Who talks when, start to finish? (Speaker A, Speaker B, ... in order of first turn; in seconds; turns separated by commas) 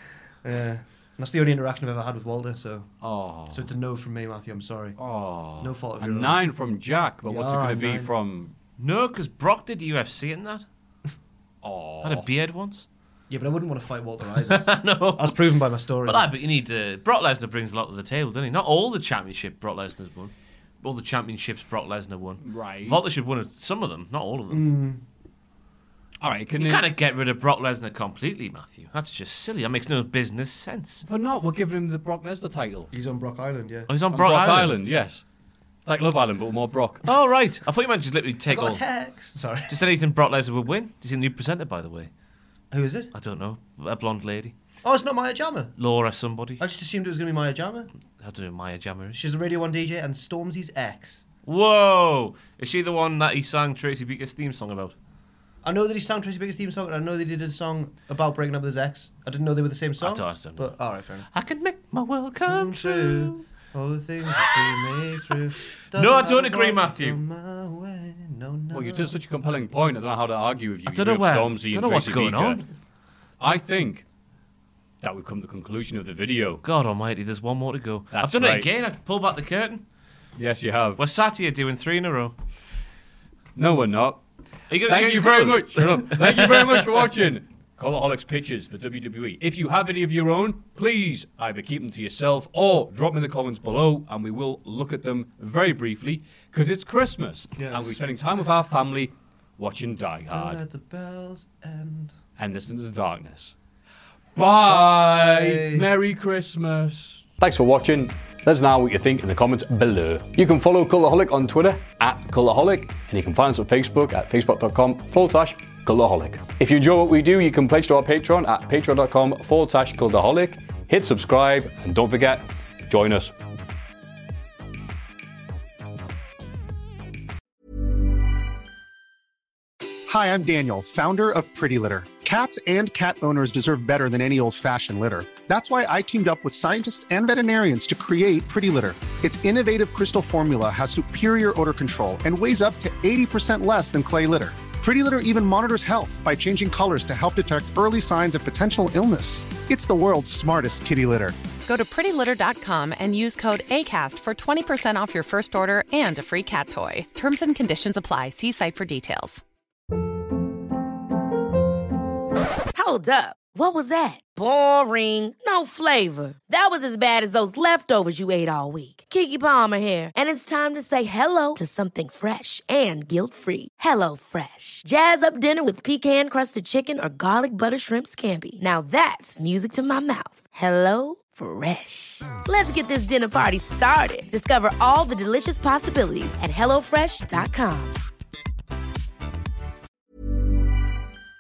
Speaker A: 0.4-2.9, Speaker B: 3.0-3.7, Speaker A: 3.5-5.0, Speaker B: 5.0-8.5, Speaker A: 5.6-6.4, Speaker A: 7.3-8.1, Speaker C: 8.8-10.7, Speaker B: 11.6-12.3, Speaker C: 12.0-12.9, Speaker A: 13.3-16.3, Speaker C: 14.5-15.4, Speaker C: 16.1-24.6, Speaker B: 22.4-23.0, Speaker A: 24.5-25.0, Speaker B: 26.2-26.9, Speaker C: 26.6-31.1, Speaker B: 31.1-32.9, Speaker A: 32.9-33.9, Speaker C: 33.9-34.8, Speaker B: 34.1-35.2, Speaker B: 35.9-37.0, Speaker C: 37.1-38.8, Speaker A: 38.5-39.8, Speaker C: 39.7-42.1, Speaker A: 42.7-43.1, Speaker C: 43.1-44.5, Speaker A: 44.8-45.7, Speaker C: 45.8-46.6, Speaker A: 46.6-47.9, Speaker C: 48.2-49.2, Speaker A: 49.1-51.2, Speaker C: 51.5-55.0, Speaker A: 55.6-61.3, Speaker C: 60.0-60.7, Speaker C: 61.3-63.4, Speaker A: 62.5-69.1, Speaker C: 65.9-67.2, Speaker B: 68.7-72.6, Speaker C: 70.9-72.7, Speaker B: 73.4-74.0, Speaker B: 75.0-76.6, Speaker C: 76.6-79.8, Speaker B: 78.1-78.7, Speaker B: 80.4-81.0, Speaker C: 81.0-82.4, Speaker B: 83.6-84.2, Speaker C: 84.7-86.9, Speaker B: 84.8-100.6, Speaker A: 97.6-98.0, Speaker A: 100.3-102.1, Speaker B: 102.4-103.5, Speaker B: 104.3-123.3, Speaker A: 104.7-105.9, Speaker D: 130.1-151.4, Speaker E: 151.7-159.4, Speaker F: 162.7-188.0